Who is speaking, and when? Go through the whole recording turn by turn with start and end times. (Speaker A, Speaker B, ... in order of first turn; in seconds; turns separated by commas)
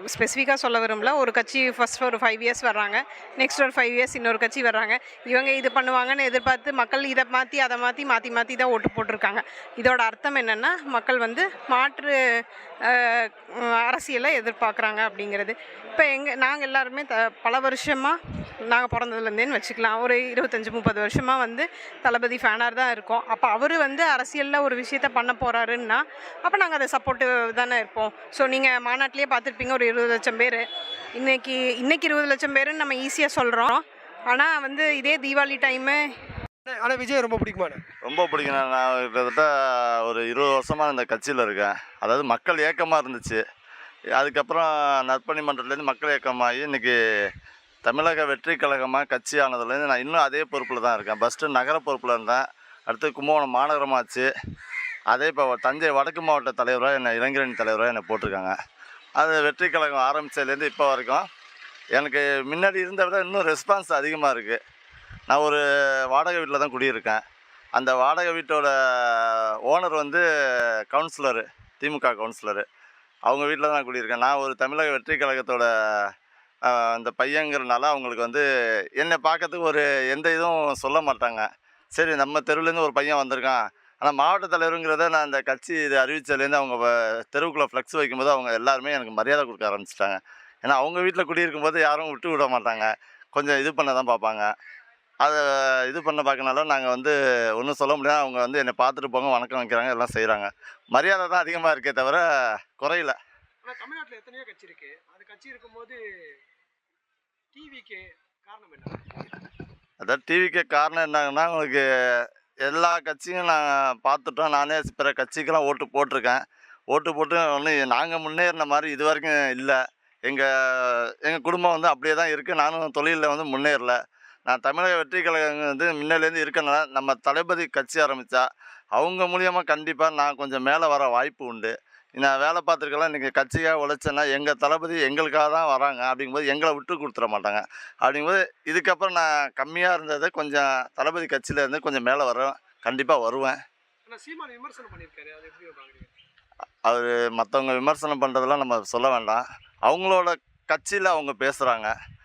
Speaker A: 0.1-12.2, Speaker A: 12.9-13.2, Speaker A: 13.8-18.1, Speaker A: 18.7-30.6, Speaker A: 31.2-36.0, Speaker B: 36.6-37.8, Speaker C: 38.0-39.5, Speaker C: 40.0-43.4, Speaker C: 44.2-46.9, Speaker C: 47.9-54.3, Speaker C: 55.1-58.6, Speaker C: 59.2-61.3, Speaker C: 62.0-64.6, Speaker C: 65.3-65.6, Speaker C: 66.1-67.2, Speaker C: 67.8-70.2, Speaker C: 70.9-72.7, Speaker C: 73.3-76.1, Speaker C: 76.7-78.4, Speaker C: 79.0-94.5, Speaker C: 95.2-102.2, Speaker C: 102.8-103.2, Speaker B: 103.6-106.0, Speaker B: 107.5-109.0, Speaker C: 110.0-124.0, Speaker C: 124.5-128.4, Speaker C: 129.0-143.6, Speaker B: 144.1-146.1, Speaker C: 146.9-151.9